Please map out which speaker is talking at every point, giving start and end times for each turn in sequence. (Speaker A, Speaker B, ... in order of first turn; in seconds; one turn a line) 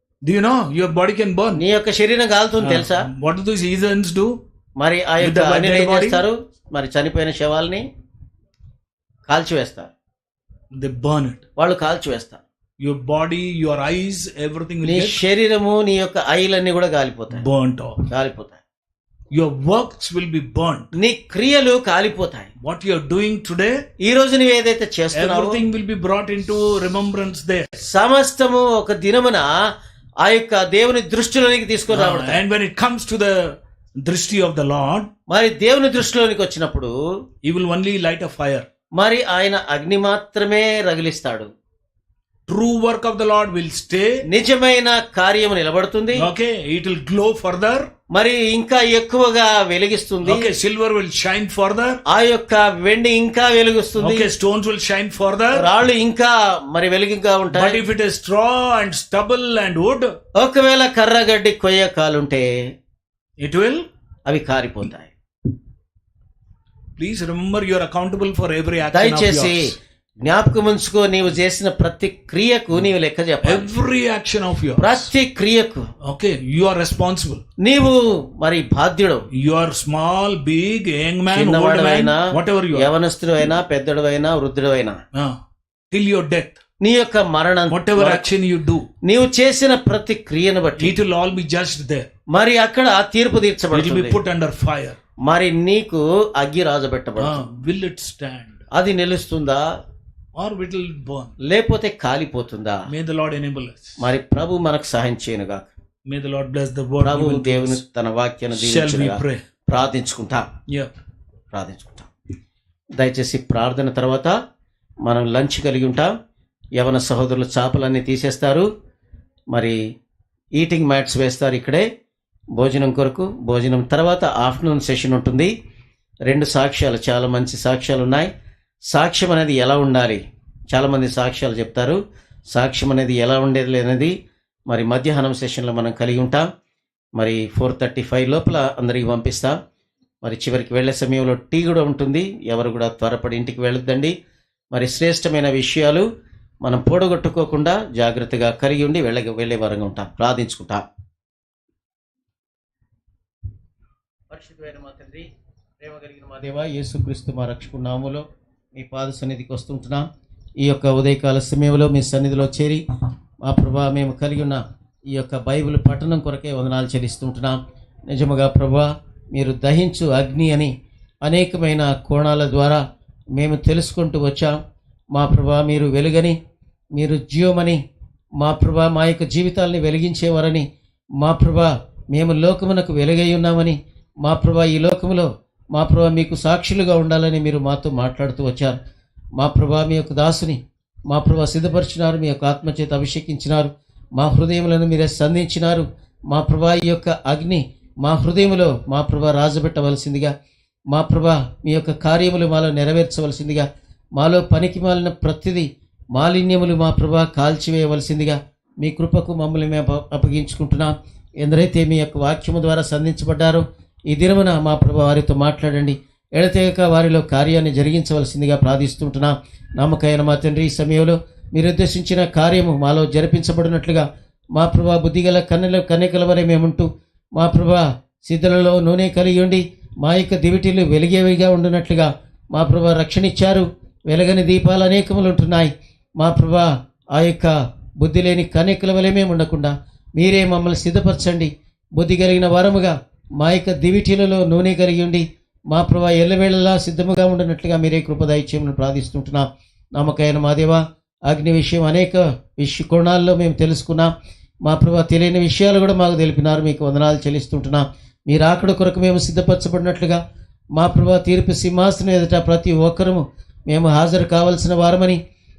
Speaker A: 0.2-1.6
Speaker B: 1.6-3.1
Speaker A: 2.6-4.4
Speaker B: 4.8-7.8
Speaker A: 5.2-6.2
Speaker B: 9.3-9.9
Speaker A: 10.8-11.4
Speaker B: 11.6-12.4
Speaker A: 12.8-15.2
Speaker B: 14.8-17.4
Speaker A: 17.3-18.1
Speaker B: 18.1-18.6
Speaker A: 19.3-20.9
Speaker B: 20.9-22.5
Speaker A: 22.6-23.8
Speaker B: 24.0-25.6
Speaker A: 25.1-27.8
Speaker B: 27.8-29.5
Speaker B: 30.2-32.4
Speaker A: 31.9-35.1
Speaker B: 35.3-36.9
Speaker A: 37.4-38.7
Speaker B: 39.0-41.5
Speaker A: 42.5-44.2
Speaker B: 44.2-46.3
Speaker A: 46.2-47.9
Speaker B: 48.1-50.5
Speaker A: 50.2-52.0
Speaker B: 52.1-54.3
Speaker A: 54.0-55.7
Speaker B: 55.5-57.8
Speaker A: 57.5-60.1
Speaker B: 60.4-62.5
Speaker A: 63.4-63.9
Speaker B: 64.3-65.1
Speaker A: 67.0-69.8
Speaker B: 68.9-73.7
Speaker A: 73.4-75.1
Speaker B: 74.8-75.8
Speaker A: 76.0-77.4
Speaker B: 77.6-79.3
Speaker A: 79.3-82.9
Speaker B: 81.3-85.0
Speaker A: 85.9-86.6
Speaker B: 86.8-88.3
Speaker A: 87.7-88.8
Speaker B: 89.0-90.9
Speaker A: 90.8-92.1
Speaker B: 92.3-94.2
Speaker A: 93.7-95.0
Speaker B: 95.2-97.4
Speaker A: 97.2-98.6
Speaker B: 98.7-99.6
Speaker A: 100.3-101.3
Speaker B: 101.4-102.8
Speaker A: 102.9-104.0
Speaker B: 104.0-105.7
Speaker A: 106.1-107.8
Speaker B: 107.0-110.4
Speaker A: 108.5-109.4
Speaker B: 111.5-112.1
Speaker B: 113.0-114.3
Speaker B: 115.0-116.1
Speaker B: 116.8-118.7
Speaker B: 119.5-119.8
Speaker B: 120.6-121.8
Speaker B: 122.6-125.5
Speaker B: 126.3-128.3
Speaker B: 128.9-130.2
Speaker B: 130.7-132.0
Speaker B: 132.5-134.1
Speaker B: 134.7-136.4
Speaker B: 137.2-139.6
Speaker B: 140.2-144.1
Speaker B: 144.7-146.1
Speaker B: 146.6-150.8
Speaker B: 154.3-155.3
Speaker B: 155.8-158.2
Speaker B: 158.8-160.0
Speaker B: 160.6-162.8
Speaker B: 163.4-167.6
Speaker B: 168.1-170.7
Speaker B: 171.2-172.8
Speaker B: 173.3-174.6
Speaker B: 175.1-176.4
Speaker B: 176.9-177.8
Speaker B: 178.4-180.7
Speaker B: 181.2-188.8
Speaker B: 189.4-190.6
Speaker B: 191.1-200.3
Speaker B: 200.9-254.1
Speaker B: 254.6-260.2
Speaker B: 260.8-265.2